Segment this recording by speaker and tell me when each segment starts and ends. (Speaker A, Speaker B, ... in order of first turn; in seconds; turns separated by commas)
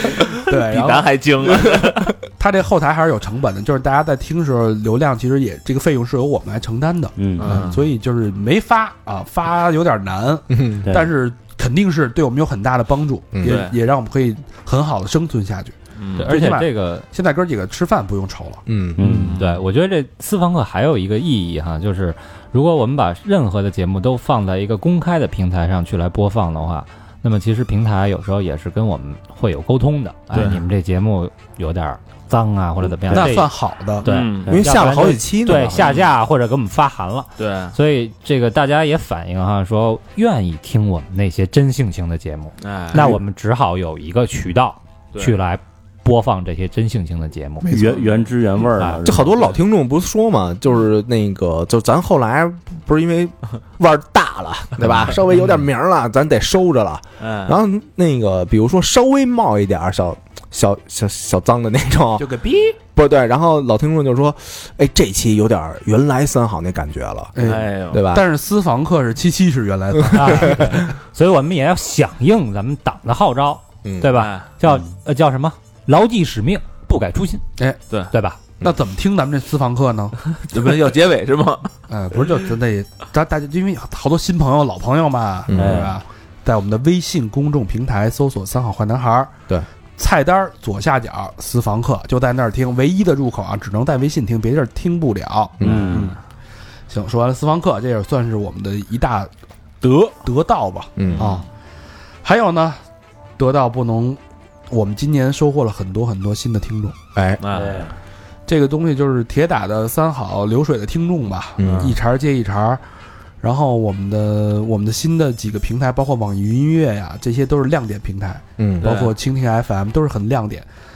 Speaker A: 0.5-1.2, Speaker B: 0.6-2.1, Speaker C: 1.5-2.0, Speaker A: 2.4-18.6, Speaker D: 7.2-7.7, Speaker B: 7.4-7.9, Speaker C: 10.5-10.9, Speaker D: 10.8-11.1, Speaker B: 13.4-13.8, Speaker B: 16.0-16.3, Speaker E: 16.2-17.1, Speaker C: 18.7-19.0, Speaker D: 19.0-19.4, Speaker E: 19.0-33.5, Speaker B: 19.1-19.6, Speaker B: 30.3-30.6, Speaker A: 33.1-34.1, Speaker B: 34.0-34.6, Speaker E: 34.0-47.7, Speaker C: 34.5-35.9, Speaker B: 35.8-36.1, Speaker B: 37.4-37.8, Speaker B: 42.6-43.1, Speaker A: 47.6-48.1, Speaker D: 47.7-49.5, Speaker C: 49.0-62.3, Speaker B: 57.2-57.6, Speaker A: 62.2-62.8, Speaker C: 63.0-68.3, Speaker A: 67.4-70.9, Speaker B: 67.4-68.0, Speaker C: 70.0-70.7, Speaker E: 70.1-77.4, Speaker C: 73.8-74.1, Speaker B: 74.1-74.5, Speaker E: 78.1-78.4, Speaker A: 78.6-80.3, Speaker B: 80.3-81.7, Speaker A: 81.9-89.4, Speaker C: 85.5-86.0, Speaker D: 85.5-86.0, Speaker A: 90.0-96.2, Speaker C: 95.6-95.9, Speaker D: 95.6-96.1, Speaker A: 96.9-99.3, Speaker B: 99.8-100.2, Speaker A: 100.2-101.5, Speaker C: 101.0-101.3, Speaker B: 101.0-101.3, Speaker A: 102.2-102.8, Speaker A: 103.4-107.0, Speaker C: 107.2-107.4, Speaker B: 107.4-107.9, Speaker D: 107.5-108.0, Speaker A: 108.5-112.8, Speaker C: 111.6-112.0, Speaker B: 111.6-112.0, Speaker A: 113.4-120.7, Speaker C: 118.6-118.9, Speaker B: 118.8-119.1